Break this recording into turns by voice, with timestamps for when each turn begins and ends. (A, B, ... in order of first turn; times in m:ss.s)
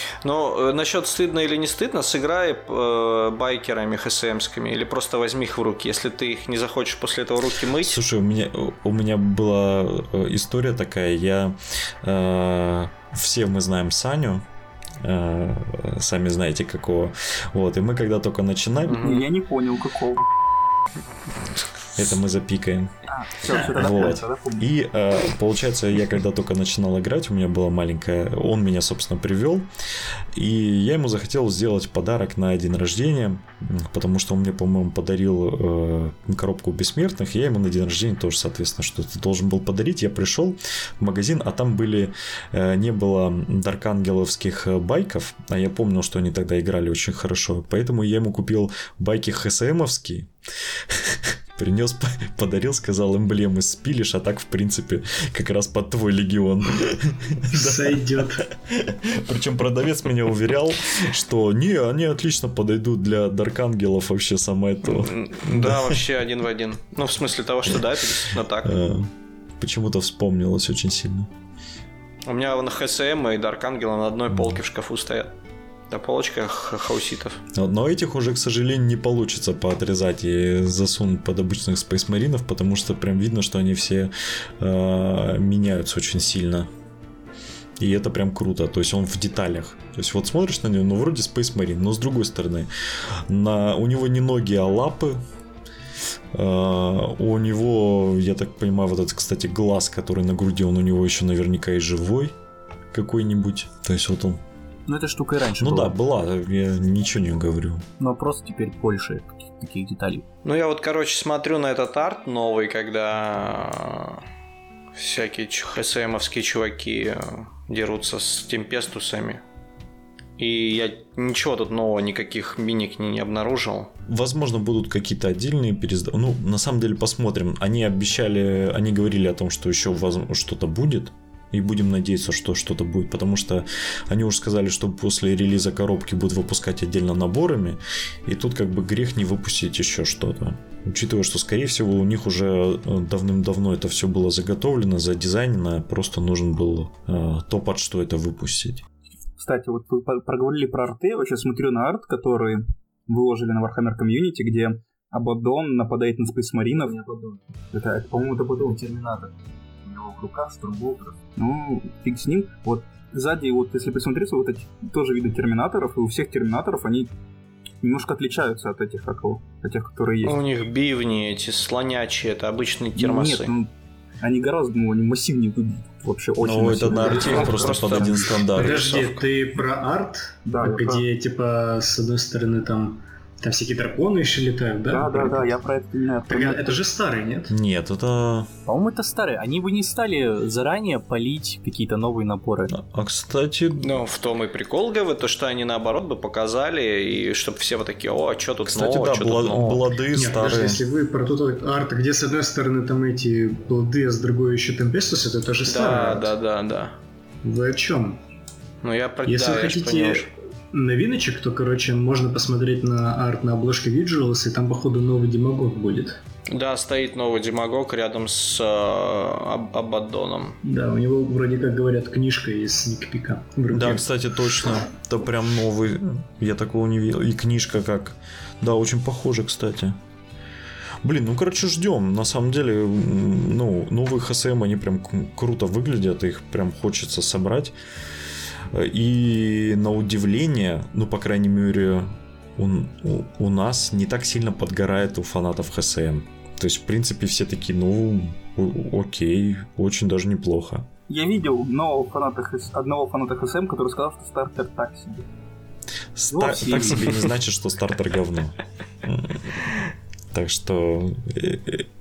0:00.2-0:08.0 A
0:07.8-0:14.4 B
0:15.0-0:19.1 B
0:18.9-0:19.3 A
0:19.0-0:20.3 C
0:22.0-0:22.9 B
0:23.1-0:24.7 C
0:23.7-0:29.7 B
0:30.3-1:06.0 B
0:57.5-0:58.4 D
1:04.8-1:08.7 A
1:08.6-1:11.3 B
1:12.3-1:15.3 A
1:14.3-1:14.6 B
1:15.9-1:17.4 A
1:17.5-1:26.7 B
1:27.8-1:32.7 B
1:33.3-1:35.2 B
1:36.3-1:42.3 B
1:42.9-1:44.4 B
1:44.9-1:46.0 E
1:45.6-1:47.8 B
1:48.0-1:50.3 E
1:50.4-1:54.2 A
1:55.0-1:59.4 A
2:00.4-2:03.9 A
2:04.1-2:28.8 B
2:29.4-2:37.0 C
2:36.8-2:37.4 E
2:37.7-2:38.8 C
2:38.6-2:41.2 E
2:41.4-2:47.1 C
2:47.8-2:50.4 C
2:50.2-2:53.6 A
2:53.0-2:53.7 C
2:54.2-2:58.3 C
2:56.4-2:59.2 B
2:57.1-2:58.9 A
2:58.5-3:05.6 D
3:00.5-3:01.0 C
3:04.9-3:06.8 C
3:06.3-3:07.5 D
3:07.5-3:08.5 B
3:08.7-3:12.7 E
3:12.7-3:14.1 B
3:13.8-3:20.0 A
3:18.7-3:20.8 B
3:20.1-3:26.3 D
3:25.7-3:27.0 A
3:27.4-3:28.2 D
3:28.8-3:30.3 A
3:29.2-3:36.2 D
3:36.5-3:40.6 A
3:40.6-3:44.1 D
3:43.7-3:50.0 B
3:51.0-3:57.7 B
3:58.7-4:10.9 B
4:11.1-4:15.2 C
4:16.2-4:19.8 B
4:16.3-4:17.2 E
4:20.3-4:21.9 B